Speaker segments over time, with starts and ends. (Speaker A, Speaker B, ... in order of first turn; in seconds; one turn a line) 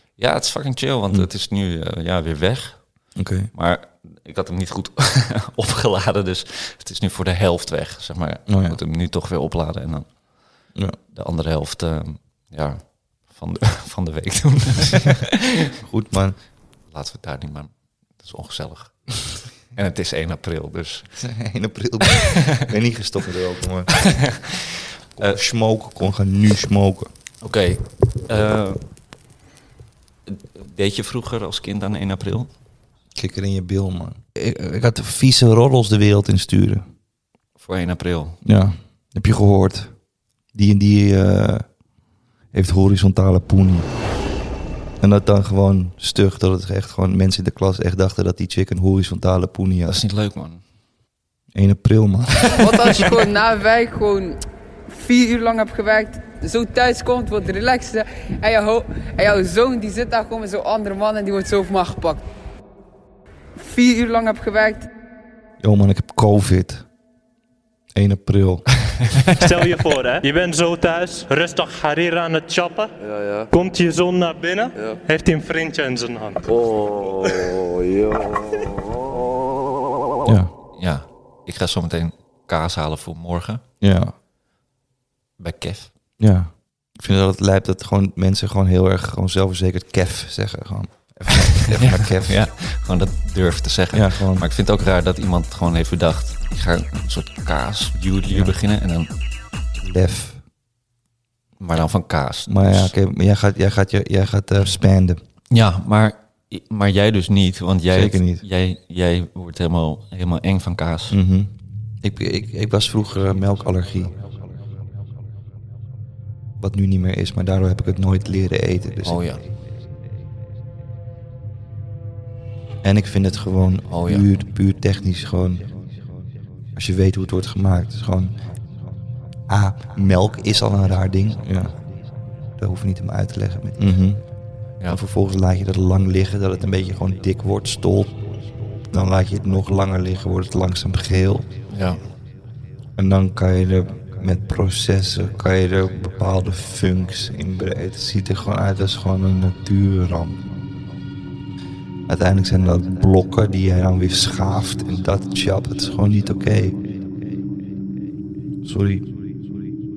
Speaker A: 0.2-3.0
Speaker B: 3.1-3.5
Speaker A: 3.5-10.1
Speaker B: 8.5-8.8
Speaker A: 11.1-15.5
Speaker B: 15.8-16.4
Speaker A: 16.9-21.2
Speaker B: 21.2-24.1
Speaker A: 22.1-22.5
Speaker A: 24.1-25.4
Speaker B: 25.2-27.1
Speaker A: 27.4-28.8
Speaker A: 30.3-32.5
Speaker B: 33.1-36.8
Speaker A: 37.6-38.4
Speaker B: 38.4-39.9
Speaker B: 40.5-41.6
Speaker B: 42.5-43.9
Speaker B: 45.0-50.0
Speaker A: 49.9-50.6
Speaker B: 51.5-53.1
Speaker C: 52.6-54.4
Speaker C: 54.9-62.2
Speaker C: 63.6-64.9
Speaker B: 65.6-66.8
Speaker B: 67.9-68.9
Speaker D: 69.4-72.9
Speaker E: 73.1-73.4
Speaker D: 73.5-76.4
Speaker E: 76.5-78.8
Speaker B: 80.2-80.5
Speaker A: 80.8-83.6
Speaker B: 83.8-84.1
Speaker A: 85.4-85.9
Speaker B: 86.2-92.5
Speaker A: 91.7-99.1
Speaker B: 93.9-94.5
Speaker B: 98.3-98.5
Speaker B: 99.8-100.4
Speaker A: 101.6-102.9
Speaker B: 102.5-105.2
Speaker A: 105.5-111.1
Speaker B: 107.9-108.4
Speaker B: 111.1-114.2
Speaker B: 116.6-119.2
Speaker A: 119.0-119.4
Speaker B: 122.8-125.7
Speaker A: 123.9-124.2
Speaker B: 126.8-128.3
Speaker B: 129.5-131.8
Speaker B: 132.6-134.2
Speaker B: 134.8-138.1
Speaker B: 138.9-141.5
Speaker A: 141.7-142.0
Speaker B: 142.9-150.4
Speaker B: 152.1-156.8
Speaker B: 158.6-159.0